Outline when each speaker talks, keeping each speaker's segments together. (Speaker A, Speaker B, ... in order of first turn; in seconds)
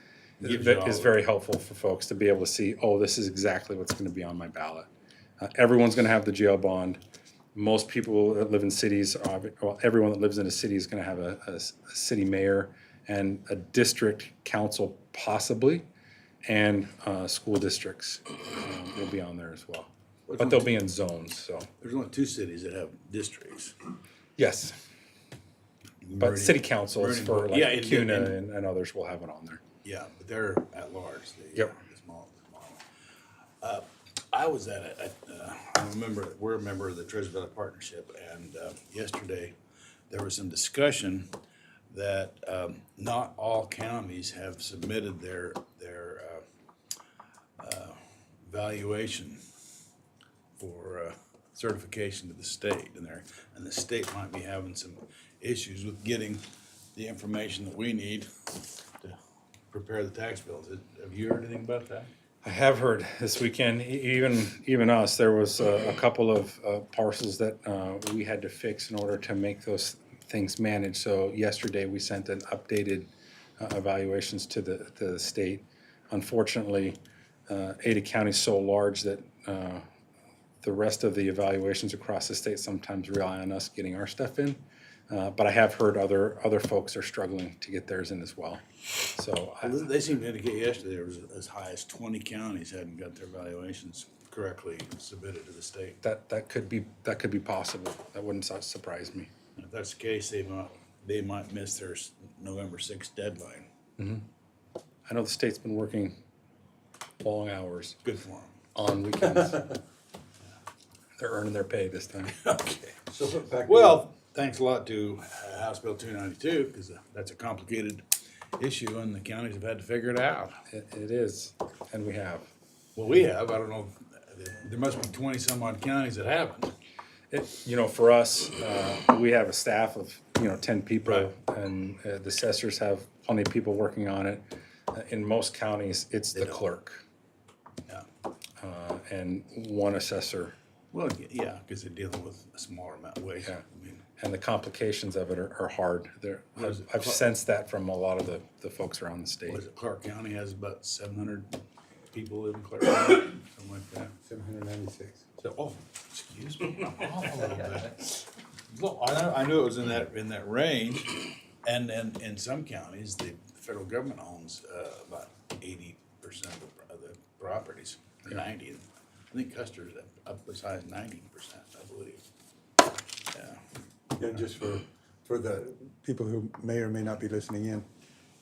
Speaker A: 0.4-1.2, 20.3-20.8, 21.8-23.8, 26.0-28.4, 29.8-32.8, 33.6-39.5, 40.1-41.3, 41.9-46.4, 47.6-49.4, 50.6-56.4, 57.0-58.3, 59.7-62.1, 89.6-96.0, 99.6-103.7, 108.0-108.6, 112.4-112.9, 113.7-118.0, 118.6-120.6, 123.0-126.7, 131.1-131.3, 136.3-136.7, 140.9-144.0, 146.6-147.2, 149.5-151.6, 152.1-154.1, 155.4-158.1, 158.7-172.2, 173.3-173.6
Speaker B: 0.4-4.9, 5.4-7.0, 7.5-15.8, 16.5-21.7, 24.4-24.8, 26.2-29.6, 62.4-77.0, 77.5-79.8, 80.6-89.8, 96.0-99.3, 104.0-104.2, 105.1-106.2, 107.2-108.0, 108.7-109.8, 111.2-112.4, 120.7-122.5, 127.3-137.0, 138.6-140.5, 144.2-149.6
Speaker C: 113.1-114.1, 154.3-155.3, 174.2-177.9